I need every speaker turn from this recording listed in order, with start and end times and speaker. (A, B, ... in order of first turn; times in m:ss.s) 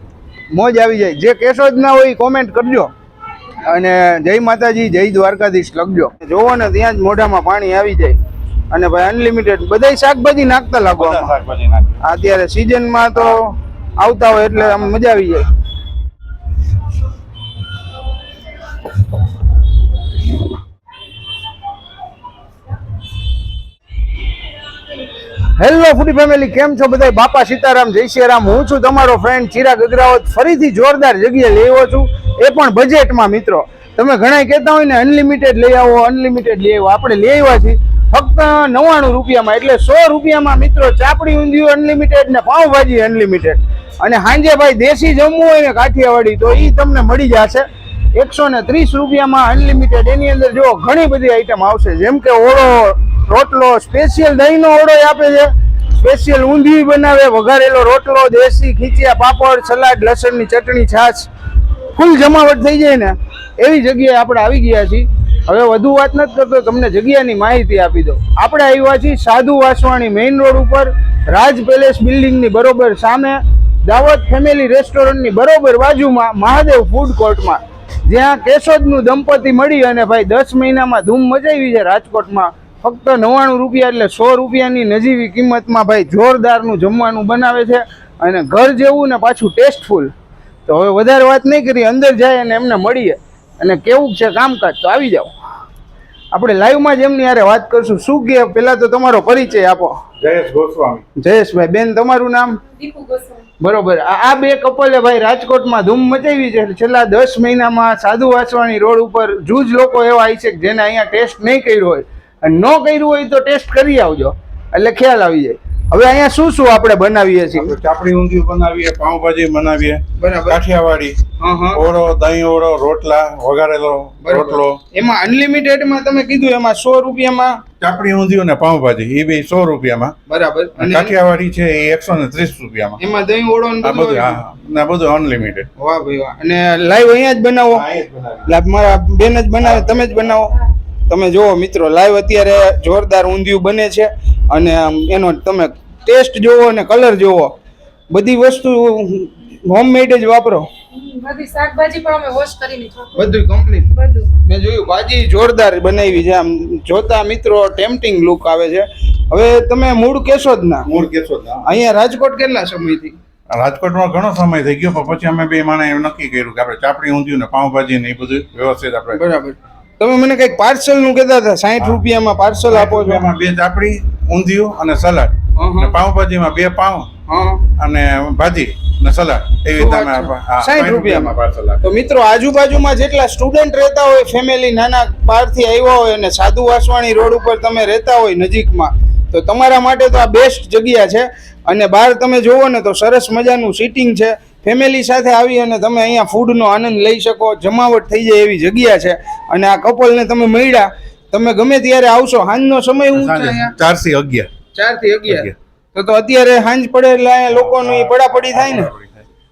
0:00.5-0:02.9 A
0:03.6-0:08.2 A
0:08.7-0:11.3 A
0:11.0-0:12.0 B
0:12.0-0:15.5 A
0:25.6-1:01.3 A
1:01.9-1:30.1 A
1:30.6-1:35.3 A
1:36.3-1:40.0 A
1:40.2-1:41.0 B
1:41.2-1:42.6 A
1:42.8-1:43.4 C
1:43.6-1:57.7 A
1:57.5-2:01.2 B
2:00.2-2:00.6 A
2:01.4-2:01.8 A
2:01.7-2:04.8 B
2:04.2-2:07.6 A
2:07.8-2:10.1 B
2:10.3-2:11.1 A
2:10.8-2:13.0 B
2:13.0-2:14.4 A
2:13.8-2:15.7 B
2:15.8-2:17.8 A
2:17.7-2:18.6 B
2:18.4-2:27.5 A
2:19.6-2:20.4 B
2:28.1-2:30.7 A
2:30.9-2:33.1 C
2:33.1-2:40.9 A
2:33.9-2:34.3 C
2:40.8-2:41.7 B
2:41.6-2:43.1 A
2:43.5-2:49.2 B
2:49.1-2:53.2 A
2:52.7-2:57.1 B
2:55.6-2:56.0 A
2:57.3-2:57.7 A
2:57.8-3:01.8 B
2:59.8-3:23.7 A
3:23.1-3:24.5 B
3:24.7-3:28.9 A
3:25.3-3:25.5 B
3:27.5-3:29.2 B